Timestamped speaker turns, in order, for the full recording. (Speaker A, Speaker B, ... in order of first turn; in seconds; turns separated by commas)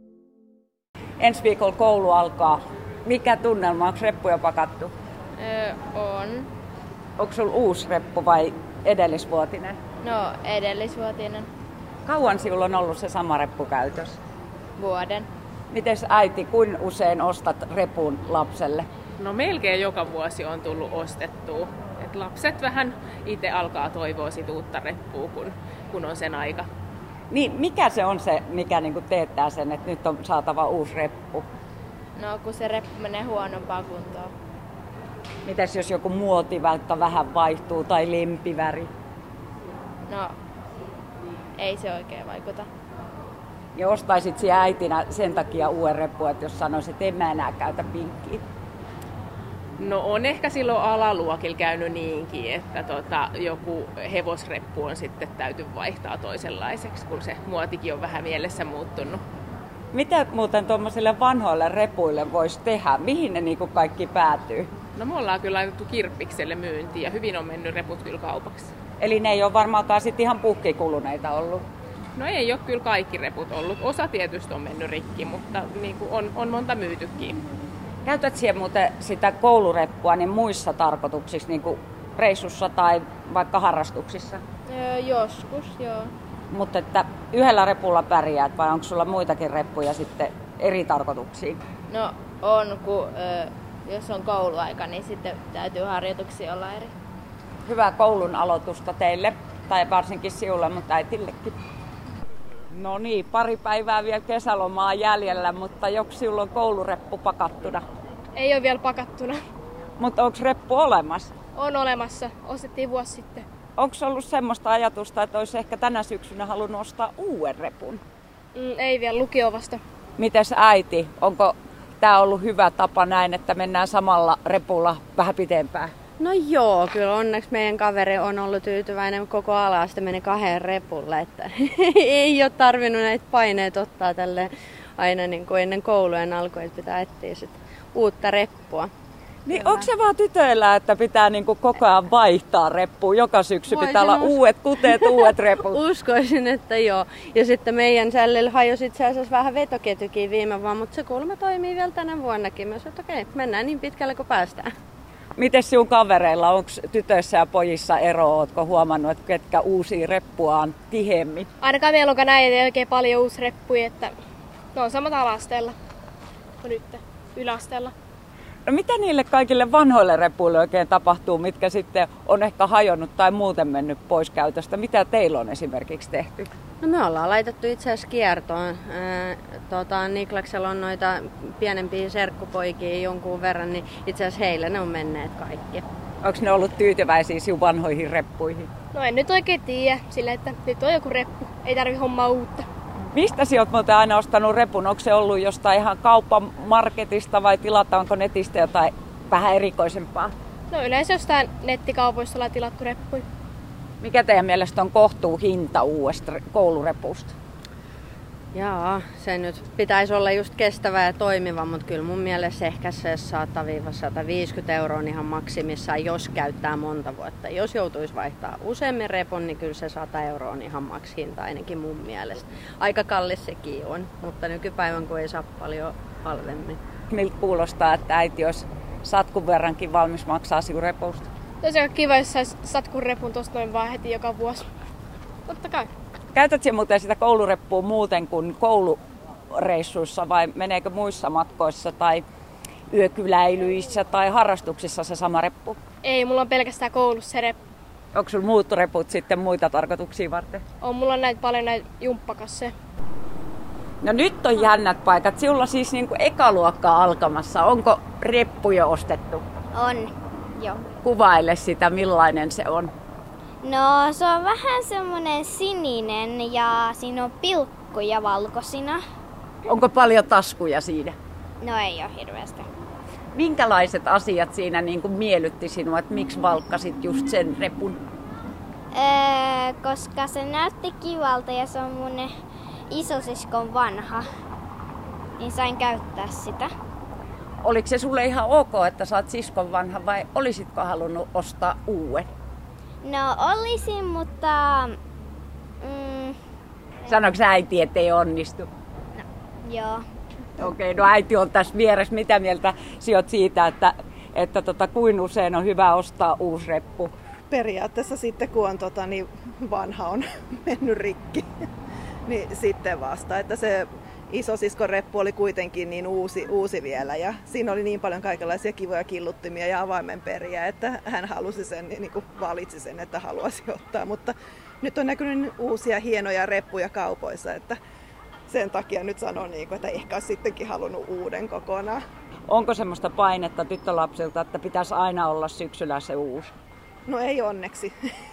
Speaker A: 1.2-4.9, Speaker B: 5.4-6.5, Speaker A: 7.2-9.8, Speaker B: 10.0-11.5, Speaker A: 12.1-14.2, Speaker B: 14.8-15.3, Speaker A: 15.7-18.9, Speaker C: 19.2-26.7, Speaker A: 27.3-31.5, Speaker B: 32.2-34.3, Speaker A: 35.4-38.9, Speaker B: 40.1-40.3, Speaker B: 41.6-42.7, Speaker A: 43.8-48.5, Speaker C: 49.8-59.2, Speaker A: 59.9-64.7, Speaker C: 65.0-68.7, Speaker A: 69.0-71.7, Speaker C: 72.2-77.4, Speaker A: 78.0-84.4, Speaker B: 84.7-86.1, Speaker A: 86.5-91.6, Speaker B: 91.9-96.9, Speaker A: 97.7-101.6, Speaker A: 102.7-107.8, Speaker D: 108.4-109.4, Speaker A: 110.0-111.3, Speaker D: 111.5-113.5, Speaker A: 113.8-118.0, Speaker D: 118.5-119.8, Speaker A: 120.2-125.9, Speaker E: 126.2-138.9, Speaker A: 139.5-145.8, Speaker E: 139.5-139.9, Speaker E: 143.7-154.7, Speaker A: 155.4-161.5, Speaker D: 161.6-164.1, Speaker D: 164.8-165.8, Speaker D: 166.6-167.9, Speaker A: 168.7-176.5, Speaker E: 176.8-185.8, Speaker A: 186.2-188.7, Speaker D: 188.9-192.7, Speaker A: 193.1-200.3, Speaker D: 200.7-203.2, Speaker A: 204.0-207.3, Speaker E: 208.5-226.8, Speaker A: 227.1-231.3, Speaker D: 231.6-234.7, Speaker D: 235.5-235.9, Speaker A: 236.3-239.0, Speaker A: 239.5-242.2, Speaker A: 242.9-245.8, Speaker D: 246.0-247.6, Speaker A: 248.1-250.6, Speaker D: 250.8-252.7, Speaker A: 254.0-259.4, Speaker F: 259.7-260.9, Speaker A: 261.0-262.9, Speaker F: 263.6-269.0, Speaker A: 269.6-271.2, Speaker F: 271.6-272.7, Speaker A: 273.3-278.0, Speaker F: 278.9-282.3, Speaker F: 282.9-284.3, Speaker F: 285.4-286.7, Speaker A: 287.6-292.3, Speaker F: 293.0-294.9, Speaker F: 295.8-296.4, Speaker A: 297.1-298.7, Speaker F: 299.2-300.0, Speaker A: 300.6-307.1, Speaker G: 307.5-311.5, Speaker G: 312.3-327.8, Speaker G: 328.5-332.0, Speaker A: 332.5-336.5, Speaker G: 337.1-337.9